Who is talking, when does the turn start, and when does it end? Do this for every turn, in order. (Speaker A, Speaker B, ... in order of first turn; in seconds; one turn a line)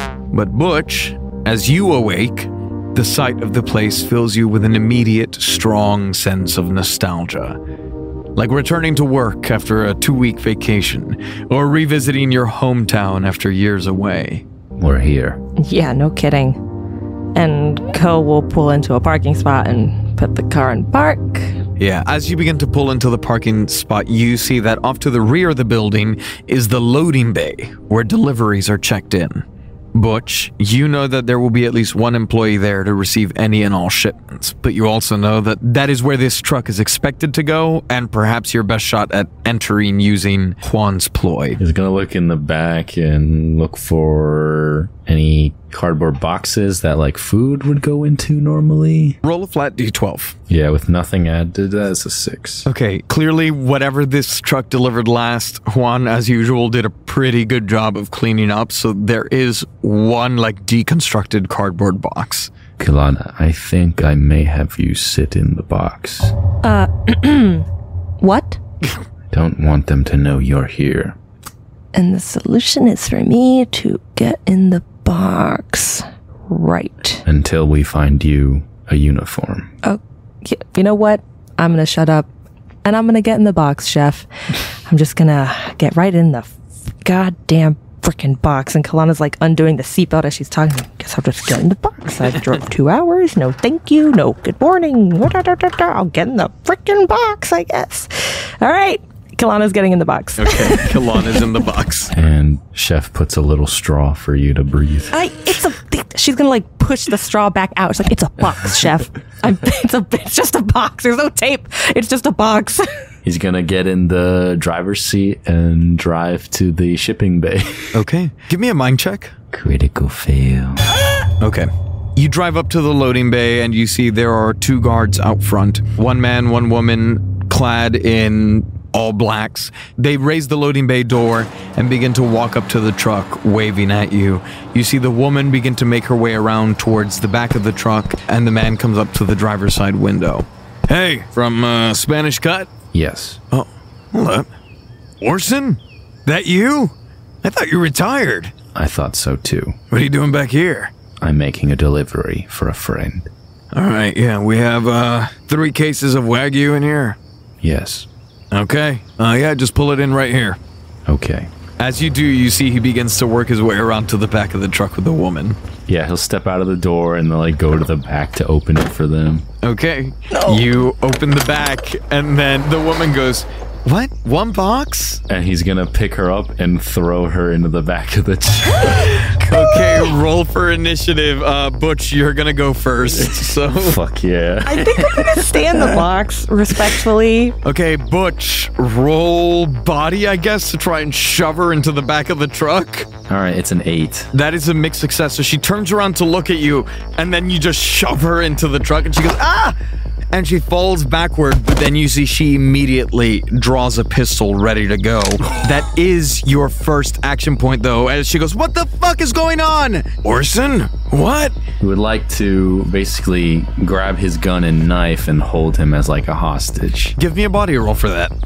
Speaker A: 0.3-7.6
Speaker A: 8.4-14.4
Speaker B: 14.8-15.4
Speaker C: 15.6-16.6
Speaker C: 17.3-21.6
Speaker A: 21.8-41.6
Speaker B: 41.6-49.2
Speaker A: 49.2-50.4
Speaker B: 50.5-52.7
Speaker A: 52.7-62.5
Speaker B: 62.8-66.3
Speaker C: 66.6-67.7
Speaker C: 68.2-68.6
Speaker B: 69.3-71.2
Speaker C: 71.9-77.2
Speaker B: 77.2-79.7
Speaker C: 79.8-82.3
Speaker C: 82.8-84.3
Speaker C: 84.8-101.0
Speaker A: 100.4-102.1
Speaker B: 102.1-105.2
Speaker C: 105.1-112.9
Speaker B: 113.2-118.0
Speaker A: 117.9-119.3
Speaker B: 119.5-120.9
Speaker A: 121.4-142.7
Speaker B: 142.9-143.4
Speaker A: 143.5-144.5
Speaker A: 145.2-148.5
Speaker B: 148.8-149.8
Speaker A: 149.9-150.9
Speaker B: 151.2-153.3
Speaker A: 153.7-157.2
Speaker B: 157.6-158.1
Speaker A: 158.5-160.6
Speaker B: 161.1-161.5
Speaker A: 161.8-165.6
Speaker B: 165.9-169.5
Speaker A: 169.6-175.2
Speaker C: 170.3-170.6
Speaker B: 175.3-179.1
Speaker A: 179.2-184.0
Speaker B: 183.1-185.6
Speaker C: 184.7-187.6
Speaker A: 187.7-193.1
Speaker B: 193.3-194.3
Speaker A: 194.3-199.8
Speaker A: 200.3-211.6
Speaker B: 211.8-217.2
Speaker A: 217.2-218.3